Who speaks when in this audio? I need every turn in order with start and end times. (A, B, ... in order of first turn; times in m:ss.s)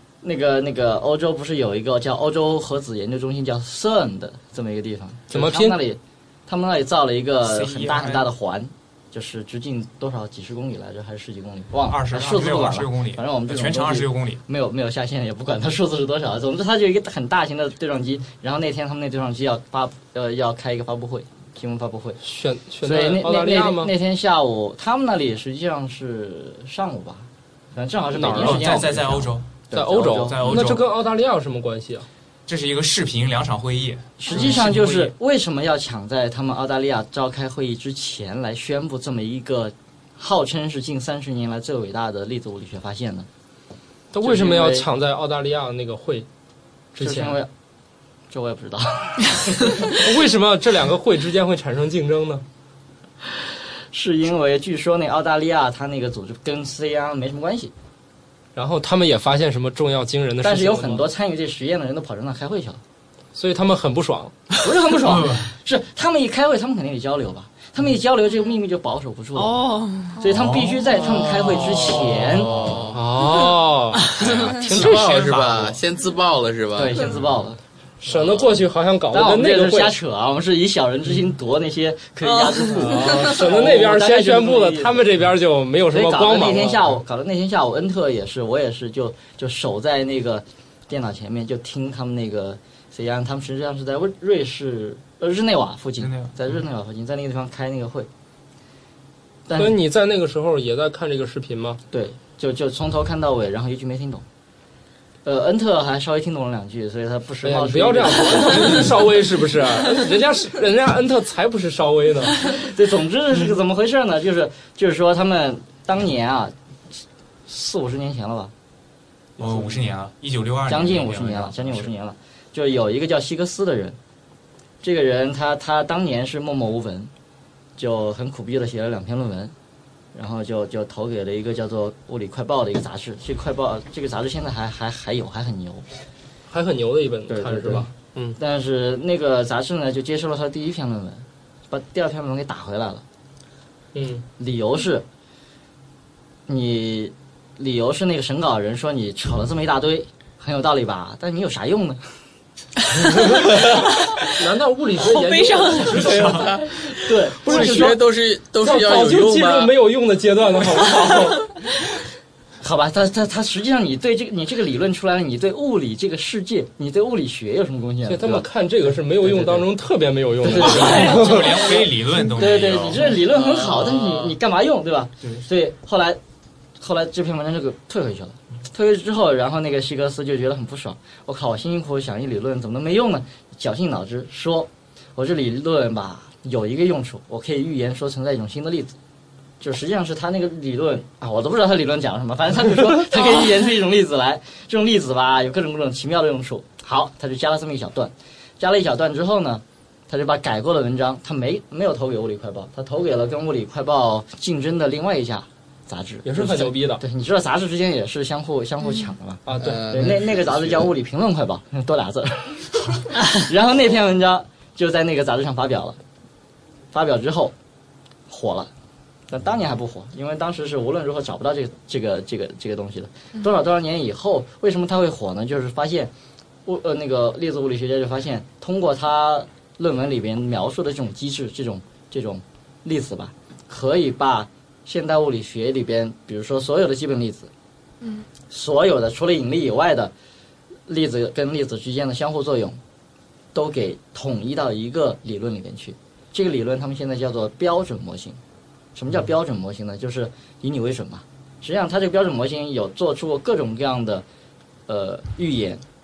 0:00.2-0:22.2 A
0:05.3-0:05.8 B
0:07.4-0:08.3 C
0:11.8-0:14.4 C
0:22.2-0:23.9 B
0:22.8-0:30.4 A
0:28.1-0:28.7 B
0:28.3-0:29.5 C
0:29.7-0:32.1 B
0:30.1-0:30.8 C
0:32.5-0:34.1 C
0:34.2-0:43.3 A
0:34.3-0:35.1 B
0:44.1-0:46.3 B
0:44.2-0:44.9 A
0:47.0-0:47.4 B
0:47.0-0:47.5 A
0:48.3-0:49.4 A
0:49.8-0:52.4 B
0:53.9-0:57.7 A
0:58.6-1:01.0 B
1:00.4-1:02.8 A
1:03.3-1:04.3 B
1:04.6-1:09.6 A
1:05.0-1:05.5 C
1:09.4-1:10.2 D
1:10.2-1:12.5 A
1:10.3-1:10.8 C
1:11.9-1:13.5 E
1:12.9-1:14.2 B
1:14.1-1:17.3 E
1:14.2-1:15.8 C
1:16.7-1:17.6 A
1:18.0-1:20.0 B
1:18.1-1:18.6 E
1:19.1-1:25.1 A
1:22.2-1:23.1 D
1:22.8-1:26.8 B
1:25.9-1:38.1 A
1:36.0-1:36.4 C
1:39.5-1:39.8 A
1:39.6-1:41.8 B
1:41.9-1:44.2 A
1:45.2-1:49.1 A
1:47.4-1:52.4 B
1:52.5-1:56.5 A
1:57.5-1:58.5 A
1:59.4-2:01.9 C
2:00.7-2:04.0 A
2:04.8-2:07.1 A
2:07.8-2:09.5 A
2:10.1-2:15.8 A
2:16.5-2:18.4 B
2:17.3-2:23.0 A
2:23.9-2:24.2 B
2:24.4-2:25.0 A
2:26.5-2:32.0 A
2:33.3-2:33.7 B
2:34.2-2:36.7 B
2:35.0-2:36.3 D
2:35.9-2:36.5 C
2:36.1-2:36.9 E
2:37.0-2:38.0 A
2:37.4-2:38.0 B
2:37.4-2:39.7 E
2:38.6-2:41.5 B
2:42.6-2:48.5 A
2:48.1-2:51.6 B
2:49.2-2:49.6 A
2:50.5-2:56.2 A
2:50.6-2:53.1 C
2:53.2-2:54.3 E
2:56.8-3:09.0 A
3:09.6-3:36.0 A
3:26.2-3:27.0 B
3:29.4-3:29.8 B
3:29.5-3:30.9 E
3:36.9-3:37.5 A
3:38.3-3:38.7 A
3:39.3-3:46.1 A
3:46.6-3:57.5 A
3:58.5-4:00.1 A
4:00.9-4:02.8 A
4:03.5-4:08.4 A
4:08.9-4:14.2 A
4:14.9-4:15.8 A